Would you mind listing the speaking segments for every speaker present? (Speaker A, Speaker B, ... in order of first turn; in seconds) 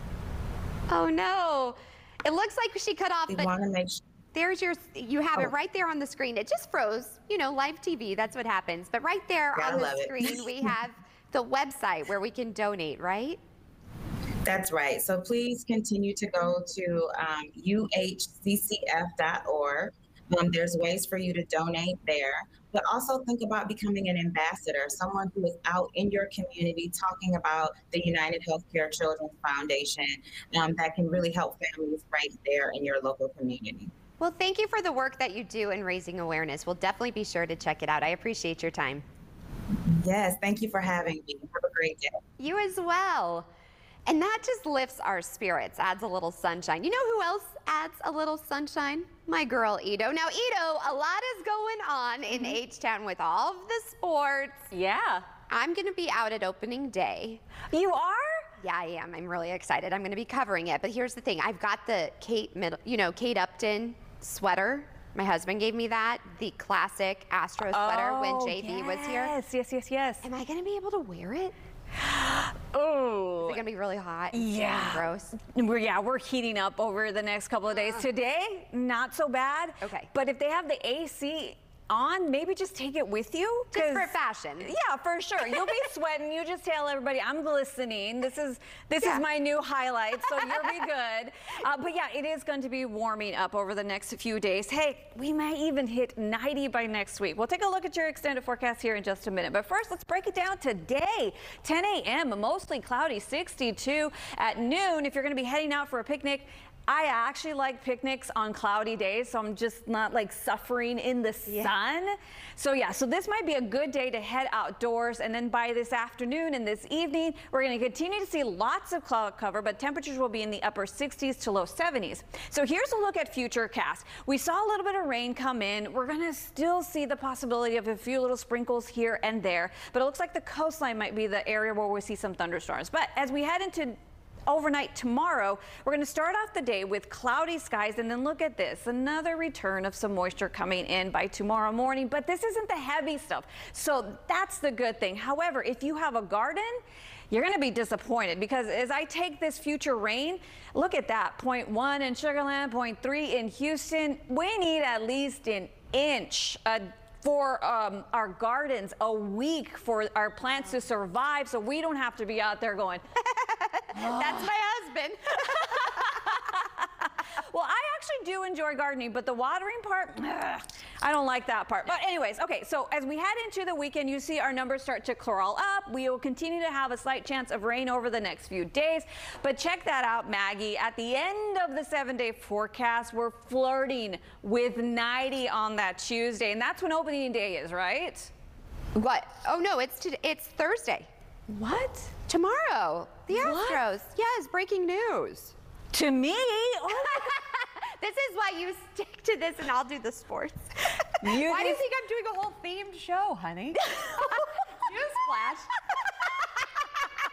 Speaker A: 0.9-3.5, 4.3-13.4, 34.2-39.0, 42.4-43.5, 44.1-54.7, 55.5-57.4, 58.6-69.3, 70.2-71.5, 73.4-75.3, 77.7-78.0, 79.8-80.1, 83.7-84.7, 163.2-166.1, 188.9-191.1, 192.2-195.5, 197.0-200.7, 201.3-205.7
Speaker B: 3.3-4.0, 9.6-10.5, 14.4-33.9, 39.9-42.2
Speaker C: 52.3-52.6, 54.7-55.3, 57.7-58.4, 67.7-70.2, 72.0-73.6, 74.3-163.0, 163.9-164.5, 165.5-188.3, 191.5-192.1, 193.3-193.8, 195.9-197.3, 201.2-201.8, 203.8-204.4